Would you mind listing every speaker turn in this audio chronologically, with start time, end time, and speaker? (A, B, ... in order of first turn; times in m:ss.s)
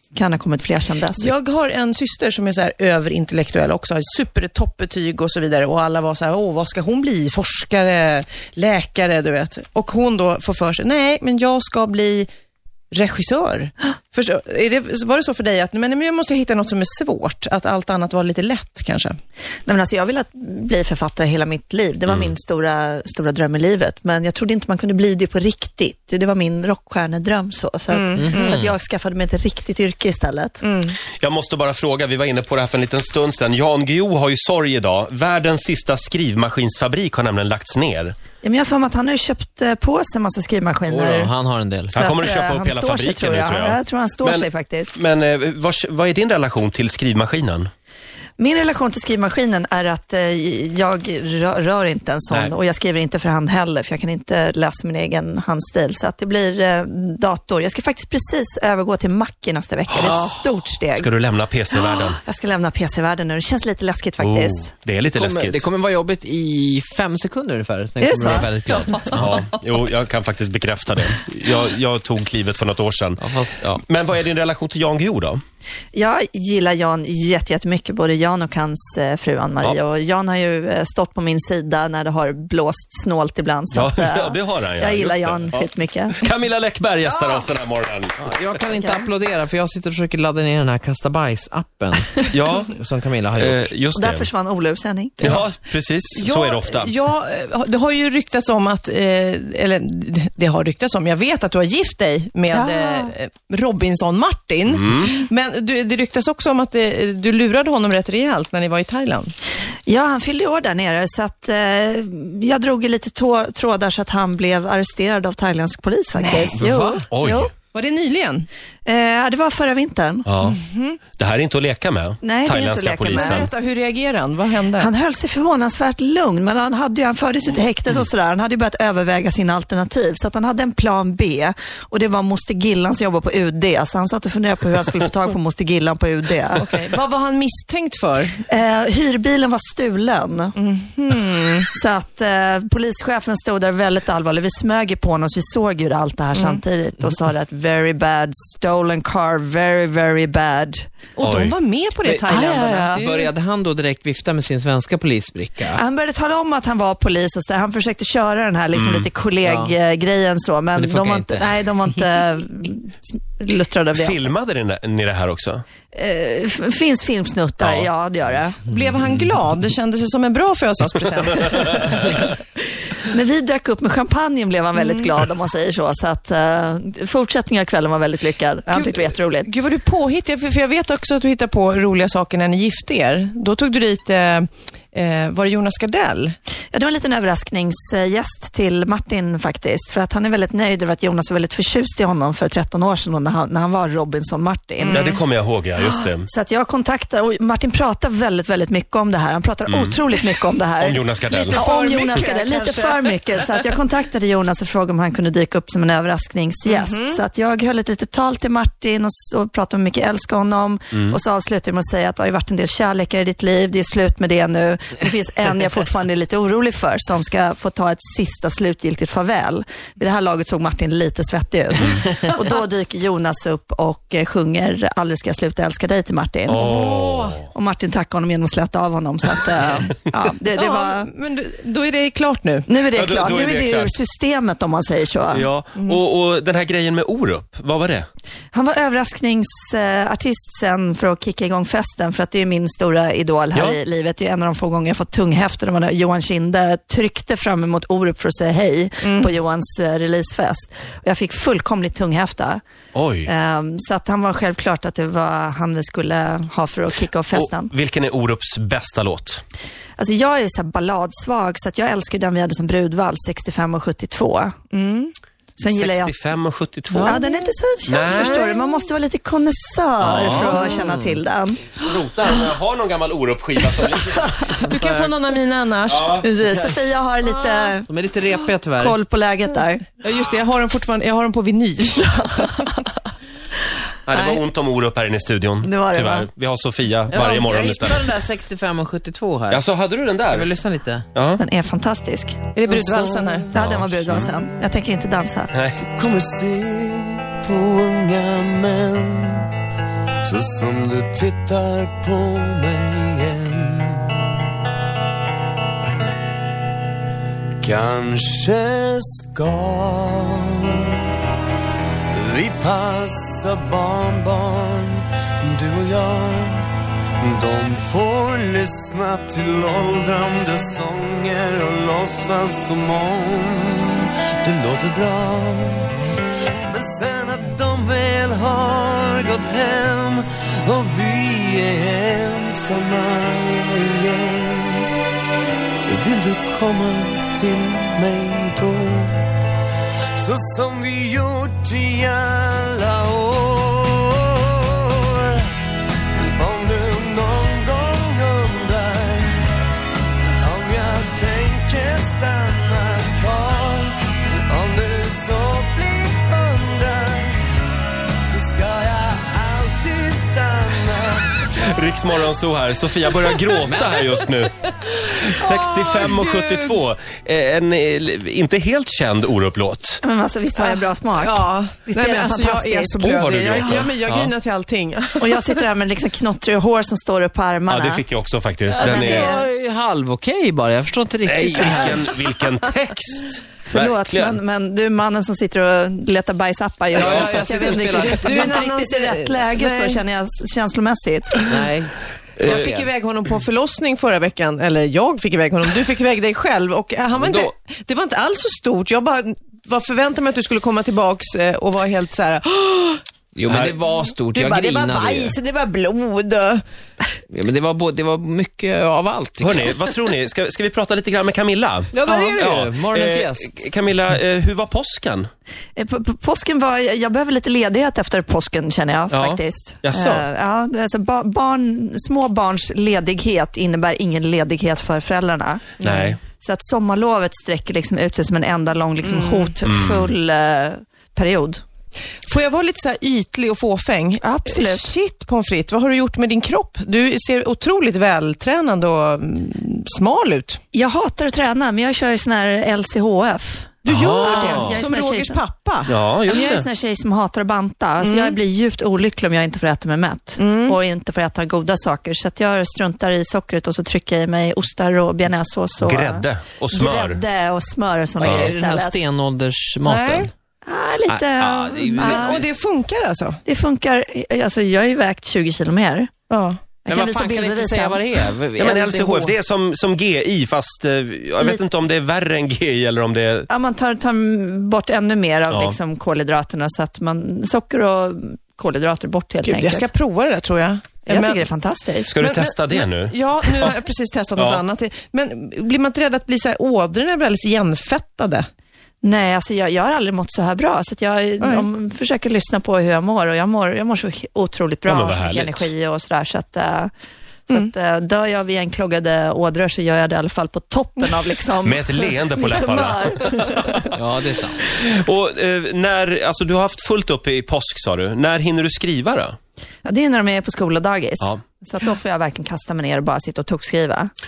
0:00.2-0:01.3 A
0:01.0-0:12.3 B
0:12.9-0:19.2 B
0:19.7-0:30.6 A
0:22.1-0:22.3 C
0:27.9-0:28.6 B
0:28.2-0:28.7 D
0:30.6-0:31.0 B
0:31.2-0:38.2 C
0:38.4-0:41.3 A
0:40.9-0:42.0 D
0:41.9-0:47.7 C
0:41.9-0:44.9 A
0:48.4-1:01.1 A
1:00.9-1:02.2 C
1:02.2-1:04.7 A
1:04.2-1:05.7 C
1:05.1-1:09.4 D
1:08.0-1:09.1 A
1:09.1-1:15.4 C
1:13.2-1:13.8 D
1:16.0-1:26.2 A
1:23.7-1:28.2 C
1:27.1-1:27.4 A
1:28.2-1:33.7 D
1:28.8-1:29.1 A
1:32.3-1:32.8 C
1:33.4-1:34.3 C
1:33.9-1:35.4 A
1:35.2-1:36.9 C
1:36.1-1:49.3 B
1:42.5-1:43.1 A
1:44.7-1:45.1 C
1:49.9-1:57.5 A
1:56.2-1:57.0 B
1:56.5-1:57.0 D
1:57.1-1:57.5 C
1:57.6-1:58.5 B
1:58.9-2:00.3 A
2:00.2-2:00.6 C
2:00.4-2:01.0 B
2:01.2-2:03.5 C
2:02.2-2:03.5 A
2:02.9-2:04.9 B
2:04.8-2:16.7 A
2:16.5-2:18.4 B
2:18.5-2:20.5 A
2:20.6-2:21.7 B
2:21.7-2:30.9 A
2:26.3-2:26.6 B
2:31.2-2:33.3 B
2:31.2-2:31.6 C
2:32.0-2:35.8 D
2:32.5-2:33.0 A
2:35.7-2:44.2 A
2:38.7-2:39.1 C
2:39.4-2:39.8 D
2:40.7-2:41.9 D
2:43.9-2:45.6 C
2:45.9-2:48.6 A
2:47.6-2:47.9 C
2:48.6-2:52.3 B
2:53.1-2:59.5 A
2:54.7-2:55.2 B
2:58.7-3:06.4 B
3:06.7-3:15.1 A
3:14.8-3:15.2 B
3:14.9-3:16.3 C
3:16.2-3:46.6 A
3:19.7-3:20.0 C
3:20.8-3:21.6 C
3:21.3-3:23.8 B
3:26.6-3:27.2 B
3:30.9-3:31.2 C
3:46.5-3:47.4 C
3:46.5-3:47.5 B
3:47.5-3:51.1 A
3:50.5-3:52.7 B
3:52.7-3:55.5 A
3:52.9-3:54.0 C
3:55.3-3:58.1 C
3:55.8-3:56.0 B
3:58.5-4:12.6 A
4:09.0-4:09.4 B
4:13.0-4:13.3 C
4:13.3-4:17.7 A
4:17.3-4:19.4 C
4:20.0-4:24.6 A
4:24.7-4:25.1 B
4:25.6-4:26.1 A
4:25.7-4:27.2 C
4:26.9-4:27.5 B
4:27.0-4:31.7 A
4:27.9-4:28.6 C
4:28.5-4:28.8 B
4:30.0-4:30.7 C
4:30.4-4:31.2 D
4:31.7-4:34.4 C
4:34.6-4:35.1 D
4:34.7-4:36.2 B
4:35.9-4:36.3 C
4:36.2-4:37.9 A
4:37.2-4:37.8 B
4:37.9-4:39.0 D
4:38.8-4:39.9 A
4:39.9-4:42.8 B
4:42.0-4:42.5 A
4:44.1-4:48.1 C
4:45.6-4:46.3 A
4:47.1-4:49.6 D
4:49.5-4:50.6 C
4:50.3-4:51.1 D
4:51.1-4:51.4 C
4:51.4-4:52.5 A
4:52.5-4:53.5 B
4:53.5-4:55.5 A
4:53.6-4:54.3 C
4:55.5-4:55.9 C
4:55.9-4:59.5 E
5:00.2-5:04.2 E
5:07.6-5:10.9 E
5:12.1-5:16.7 E
5:17.2-5:25.9 E
5:26.7-5:34.9 E
5:35.9-5:39.2 E
5:40.2-5:45.5 E
5:46.3-5:49.4 E
5:50.4-5:57.4 E
5:58.3-6:01.5 E
6:01.6-6:04.5 C
6:03.6-6:04.2 D
6:04.8-6:06.8 B
6:05.1-6:10.0 C
6:10.0-6:13.1 A
6:10.6-6:15.7 B
6:13.0-6:14.3 C
6:15.2-6:18.0 A
6:17.7-6:19.3 C
6:18.7-6:22.1 D
6:18.8-6:19.5 A
6:21.2-6:24.4 C
6:23.6-6:31.5 A
6:26.9-6:28.2 D
6:27.0-6:27.3 C
6:28.1-6:30.0 B
6:31.5-6:32.0 D
6:32.4-6:43.0 B
6:32.4-6:32.7 C
6:37.1-6:37.5 D
6:43.3-6:45.4 D
6:43.5-6:43.8 C
6:43.9-6:46.6 B
6:47.3-6:49.8 D
6:49.4-6:55.3 C
6:51.9-6:53.6 D
6:55.8-7:11.6 A
6:59.1-7:00.2 C
7:05.8-7:06.1 B
7:05.8-7:06.2 C
7:09.0-7:09.6 B
7:09.7-7:10.1 C
7:12.3-7:20.6 B
7:14.2-7:14.9 A
7:20.7-7:25.4 A
7:23.8-7:26.6 B
7:23.9-7:24.8 C
7:25.9-7:26.7 C
7:26.2-7:39.0 A
7:28.0-7:28.4 B
7:30.4-7:30.8 B
7:35.8-7:37.2 C
7:38.2-7:40.3 D
7:38.2-7:38.5 C
7:39.8-7:40.3 B
7:40.6-7:42.4 A
7:41.1-7:42.5 C
7:42.0-7:43.4 B
7:43.5-7:46.1 A
7:46.3-7:46.6 B
7:46.8-7:48.3 A
7:46.9-7:49.4 D
7:48.6-7:53.5 C
7:53.5-7:59.9 A
7:55.5-7:55.8 C
7:59.4-8:01.5 B
8:01.1-8:02.1 A
8:02.1-8:03.8 C
8:02.1-8:08.5 B
8:04.4-8:04.6 C
8:09.0-8:16.9 A
8:11.4-8:11.7 B
8:14.9-8:15.7 C
8:17.5-8:24.0 A
8:21.6-8:23.9 C
8:23.9-8:24.6 D
8:24.7-8:29.4 C
8:29.8-8:34.1 A